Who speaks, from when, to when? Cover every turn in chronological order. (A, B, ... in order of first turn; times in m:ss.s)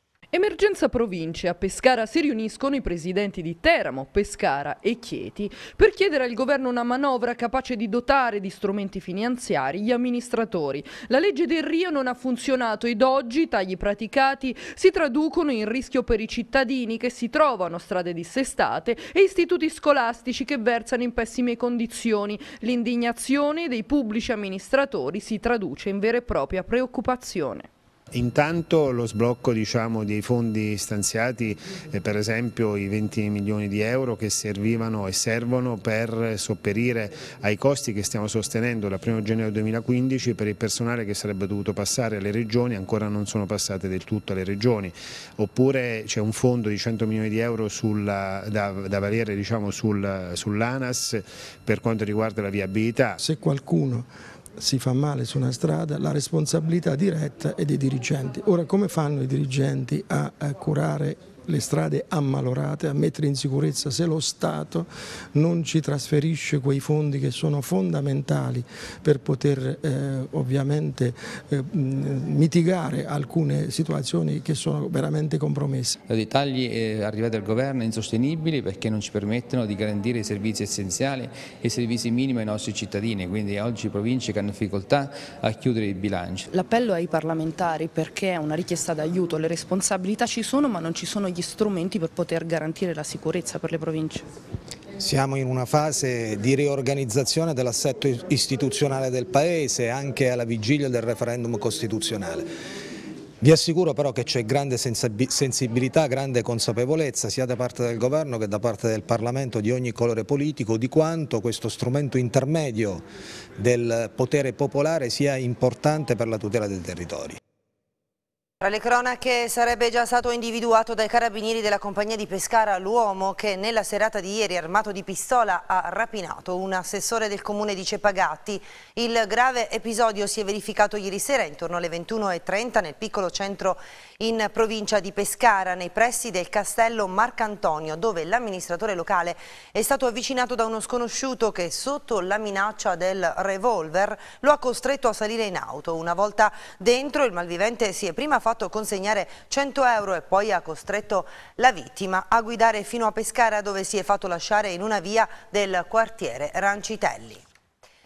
0:00.3-0:27.7 A
0:28.1-0:53.2 B
0:53.2-1:16.0 C
1:16.1-1:26.5 D
1:26.5-1:34.3 E
1:35.0-1:42.5 F
1:43.4-1:53.0 F
1:53.6-1:57.4 F
1:58.6-2:37.4 G